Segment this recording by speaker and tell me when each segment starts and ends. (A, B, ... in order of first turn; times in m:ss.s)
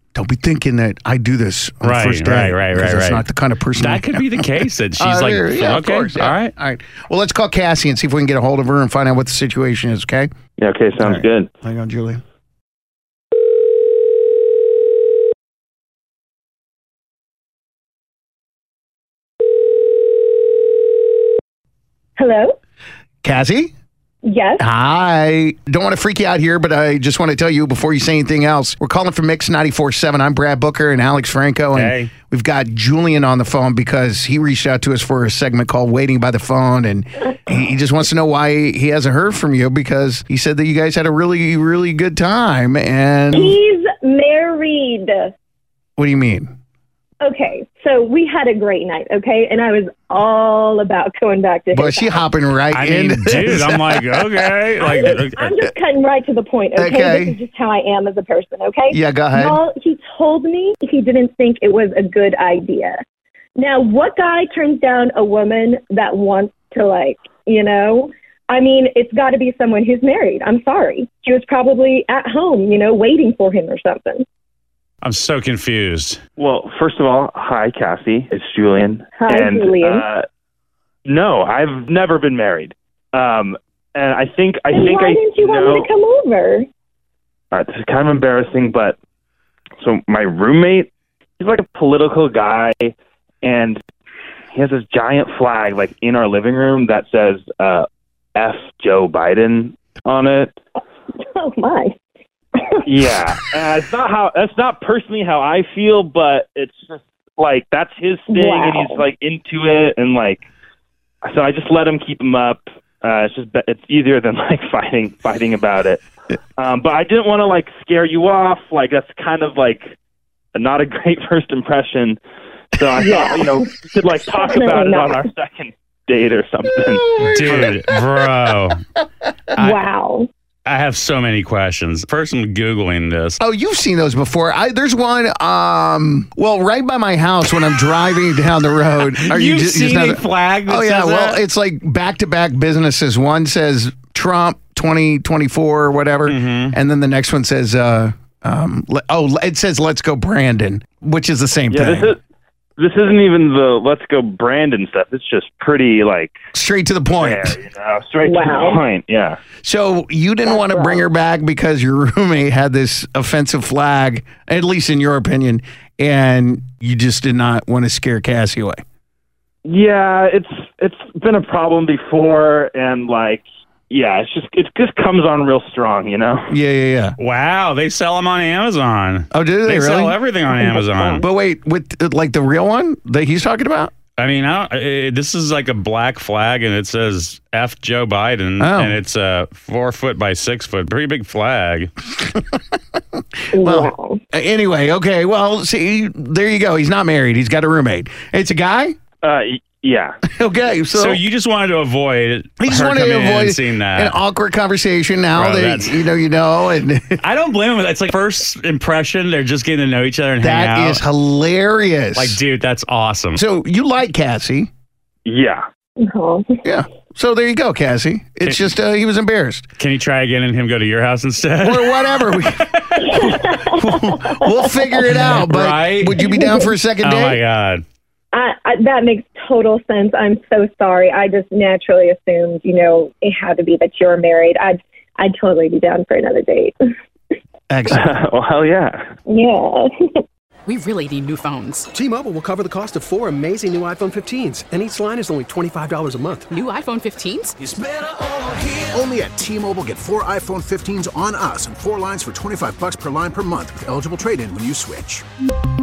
0:00.1-0:10.3 A
0:01.8-0:06.5 B
0:10.6-0:11.5 C
0:11.0-0:12.2 A
0:22.2-0:22.6 D
0:23.2-0:23.7 A
0:24.2-0:24.6 D
0:24.6-0:43.6 A
0:31.7-0:32.1 B
0:43.3-0:45.3 D
0:46.0-0:46.5 A
0:47.2-0:52.2 D
0:51.7-0:54.3 A
0:52.7-0:55.5 B
0:54.8-1:03.0 D
0:56.8-0:57.4 A
0:58.9-0:59.6 A
1:03.6-1:14.2 D
1:15.0-1:16.2 B
1:16.4-1:20.2 C
1:19.2-1:20.0 D
1:21.1-1:25.8 C
1:24.7-1:26.6 D
1:27.5-1:28.9 C
1:29.8-1:30.9 C
1:31.4-1:33.8 C
1:34.5-1:37.8 C
1:38.4-1:40.5 C
1:41.3-1:41.9 D
1:42.9-1:50.4 C
1:48.3-1:49.0 D
1:51.2-1:56.0 C
1:56.6-1:59.9 C
2:00.5-2:02.2 C
2:02.8-2:07.1 C
2:03.0-2:03.7 D
2:04.4-2:05.2 D
2:07.2-2:07.8 A
2:07.2-2:08.8 B
2:09.5-2:09.8 B
2:09.6-2:10.3 D
2:10.6-2:13.4 B
2:13.4-2:32.1 A
2:19.1-2:21.4 B
2:26.2-2:26.8 B
2:31.7-2:32.2 C
2:32.8-2:36.3 C
2:36.5-2:37.5 A
2:37.1-2:39.4 C
2:38.2-2:38.8 D
2:39.6-2:48.8 A
2:40.4-2:41.0 D
2:49.6-2:56.5 C
2:56.5-2:57.2 A
2:57.2-3:01.2 B
2:59.3-3:03.9 A
3:04.2-3:11.9 B
3:08.6-3:09.0 A
3:12.2-3:18.9 A
3:13.5-3:14.2 D
3:19.2-3:20.2 C
3:20.3-3:21.2 A
3:20.9-3:24.2 B
3:22.6-3:27.2 A
3:25.3-3:26.1 B
3:27.2-3:31.0 B
3:30.4-3:32.4 A
3:32.1-3:33.4 B
3:33.3-3:34.7 A
3:35.2-3:35.6 C
3:36.0-3:36.5 D
3:36.6-3:39.7 A
3:38.4-3:38.7 B
3:39.8-3:43.3 B
3:41.6-3:42.6 A
3:43.0-3:44.9 D
3:43.2-3:47.4 A
3:45.0-3:46.2 B
3:46.2-3:46.7 D
3:47.0-3:47.8 B
3:48.3-3:56.7 D
3:57.7-3:58.0 A
3:58.0-3:59.0 C
3:59.3-3:59.9 D
4:00.7-4:01.9 E
4:01.9-4:06.5 F
4:06.5-4:07.6 E
4:07.6-4:15.2 G